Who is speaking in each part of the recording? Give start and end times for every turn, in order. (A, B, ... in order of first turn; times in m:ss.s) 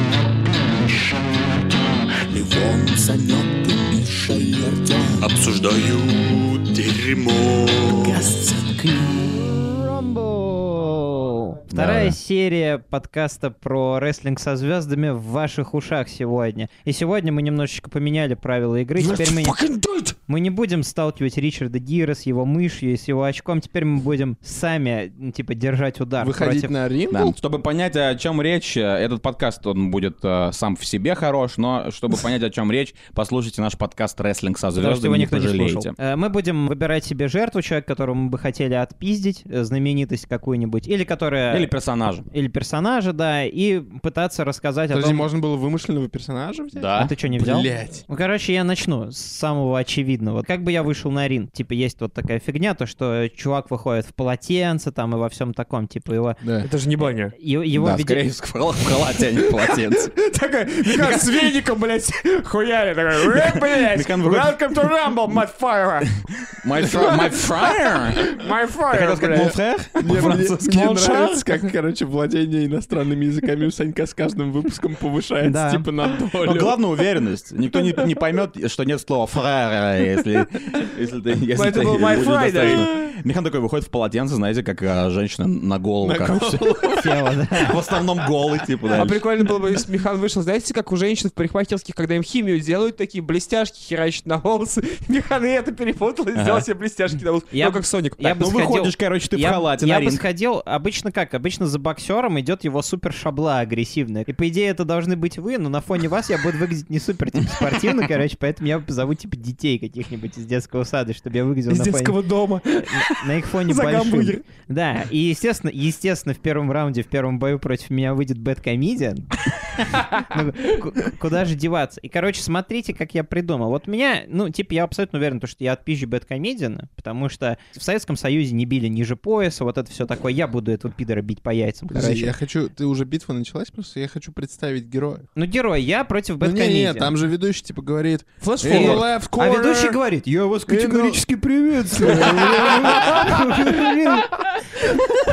0:02.3-0:05.5 A
0:05.2-0:08.2 B
0:07.9-0:09.5 A
0:09.3-0:19.6 C
0:11.7-0:12.2 A
0:19.0-0:20.2 D
0:20.3-0:26.7 C
0:26.2-0:27.3 E
0:27.1-0:36.0 A
0:34.8-0:41.7 C
0:41.5-0:42.3 A
0:42.3-0:45.3 C
0:44.9-0:48.0 E
0:46.7-0:47.1 A
0:47.0-0:56.4 C
0:56.4-0:56.7 E
0:56.6-0:57.3 D
0:57.4-0:58.3 C
0:57.8-1:00.2 A
1:00.2-1:06.2 D
1:00.8-1:01.5 A
1:03.2-1:04.6 A
1:06.4-1:08.4 A
1:08.3-1:09.6 D
1:08.9-1:10.8 A
1:10.0-1:16.8 E
1:10.6-1:11.7 D
1:15.4-1:15.9 C
1:16.4-1:29.2 A
1:21.6-1:22.9 D
1:26.0-1:27.2 E
1:27.0-1:27.8 C
1:29.0-1:38.3 D
1:36.4-1:36.7 A
1:37.5-1:52.2 C
1:38.3-1:40.2 A
1:51.7-1:54.4 D
1:52.8-1:59.3 C
1:59.8-2:00.8 D
1:59.9-2:12.3 C
2:11.9-2:15.3 E
2:15.4-2:17.2 C
2:16.4-2:20.0 E
2:18.4-2:19.2 D
2:18.7-2:24.4 C
2:20.7-2:21.3 E
2:21.8-2:23.3 E
2:21.9-2:23.6 D